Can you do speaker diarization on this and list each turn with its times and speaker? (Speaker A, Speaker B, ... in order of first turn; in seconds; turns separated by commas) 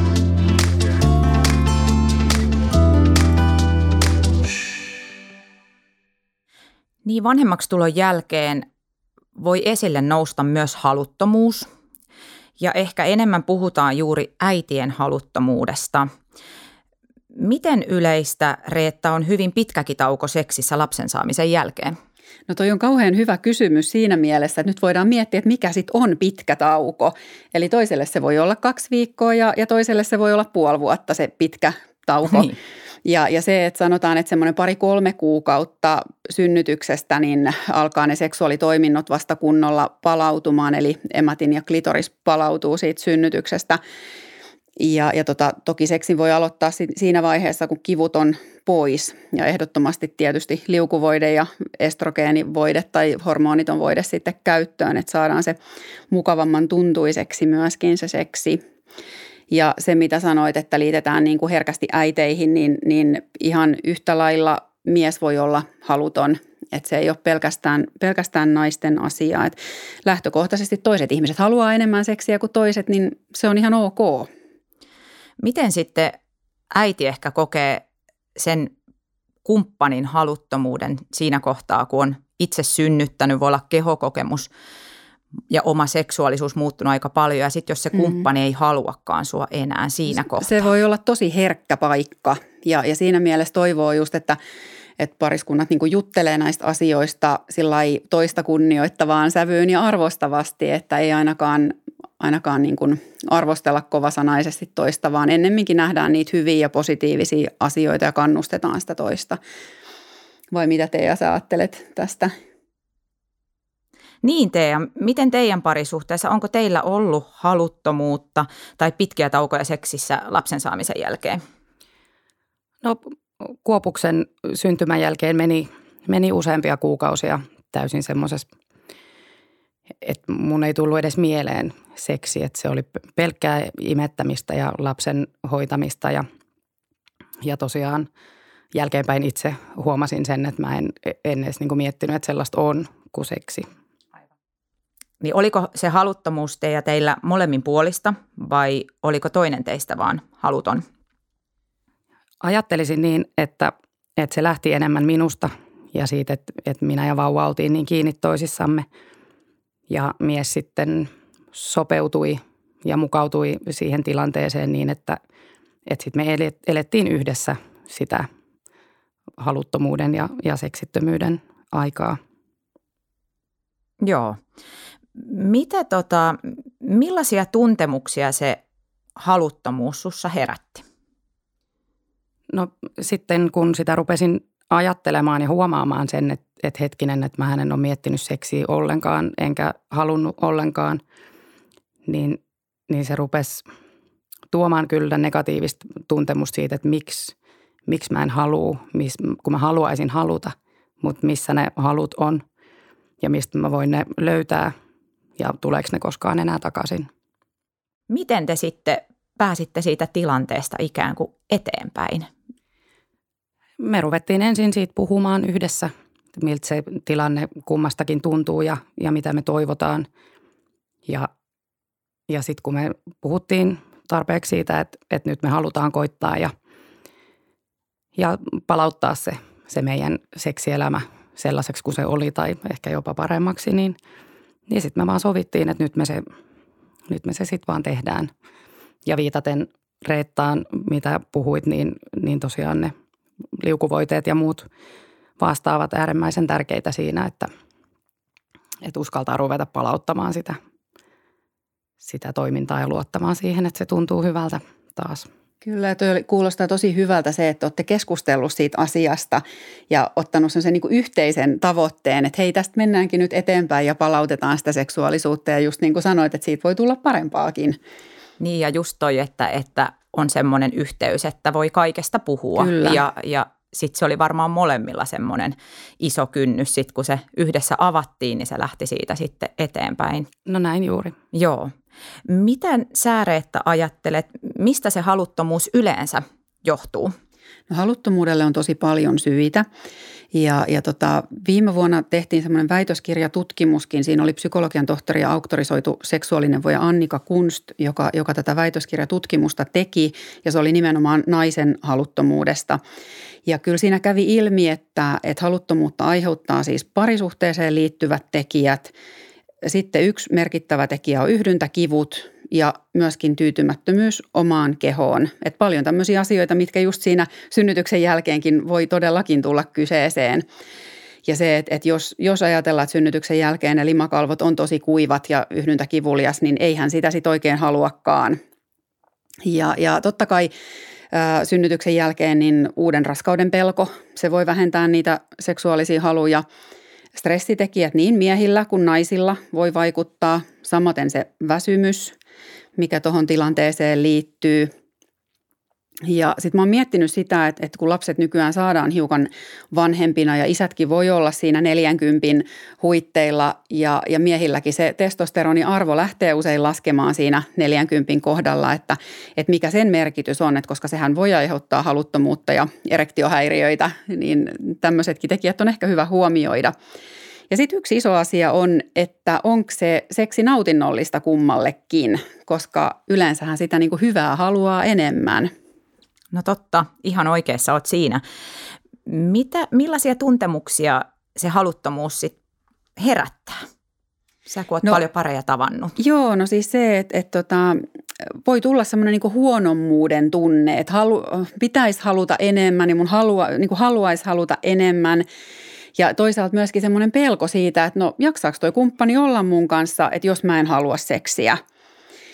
Speaker A: 7.0-8.7, Speaker A: 9.4-11.7, Speaker A: 12.6-16.1, Speaker A: 17.4-22.0, Speaker B: 22.5-43.8, Speaker B: 44.8-55.6, Speaker B: 56.1-58.6, Speaker B: 59.5-74.3, Speaker A: 75.4-76.2, Speaker A: 76.7-77.8, Speaker A: 78.4-78.7, Speaker A: 79.5-84.5, Speaker A: 85.5-90.6, Speaker B: 90.1-94.4, Speaker B: 95.0-109.4, Speaker B: 110.5-112.3, Speaker A: 114.2-121.4, Speaker C: 122.8-128.5, Speaker C: 130.0-136.2, Speaker C: 137.4-138.1, Speaker C: 138.7-143.7, Speaker A: 145.2-150.8, Speaker C: 152.4-158.9, Speaker C: 159.9-165.2, Speaker C: 165.9-168.3, Speaker C: 169.4-172.2, Speaker A: 174.0-174.4, Speaker A: 175.2-178.6, Speaker A: 179.2-180.8, Speaker C: 182.5-191.0, Speaker C: 192.1-193.7, Speaker C: 194.5-197.3, Speaker C: 197.9-202.4, Speaker C: 203.2-204.7, Speaker C: 205.4-207.1, Speaker A: 208.1-212.3, Speaker C: 213.8-220.1, Speaker C: 222.3-226.5, Speaker C: 228.2-234.0, Speaker C: 234.7-236.3, Speaker C: 237.1-238.3, Speaker C: 239.1-242.9, Speaker C: 243.6-244.7, Speaker C: 245.4-247.5, Speaker C: 248.8-250.6, Speaker C: 252.0-255.3, Speaker B: 255.6-267.8, Speaker A: 268.4-280.3, Speaker B: 272.6-273.0, Speaker C: 280.5-281.1, Speaker A: 281.3-281.7, Speaker A: 282.3-287.1, Speaker B: 287.7-289.6, Speaker B: 290.3-302.8, Speaker B: 303.5-308.9, Speaker B: 309.6-320.4, Speaker B: 321.2-328.4, Speaker B: 329.4-330.5, Speaker B: 331.1-336.4, Speaker B: 337.2-342.1, Speaker B: 342.8-344.7, Speaker B: 346.1-366.7, Speaker B: 367.5-375.5, Speaker A: 376.3-378.2, Speaker A: 379.1-382.4, Speaker A: 383.0-383.6, Speaker A: 384.5-385.9, Speaker B: 386.0-387.8, Speaker B: 388.4-395.2, Speaker B: 396.0-401.6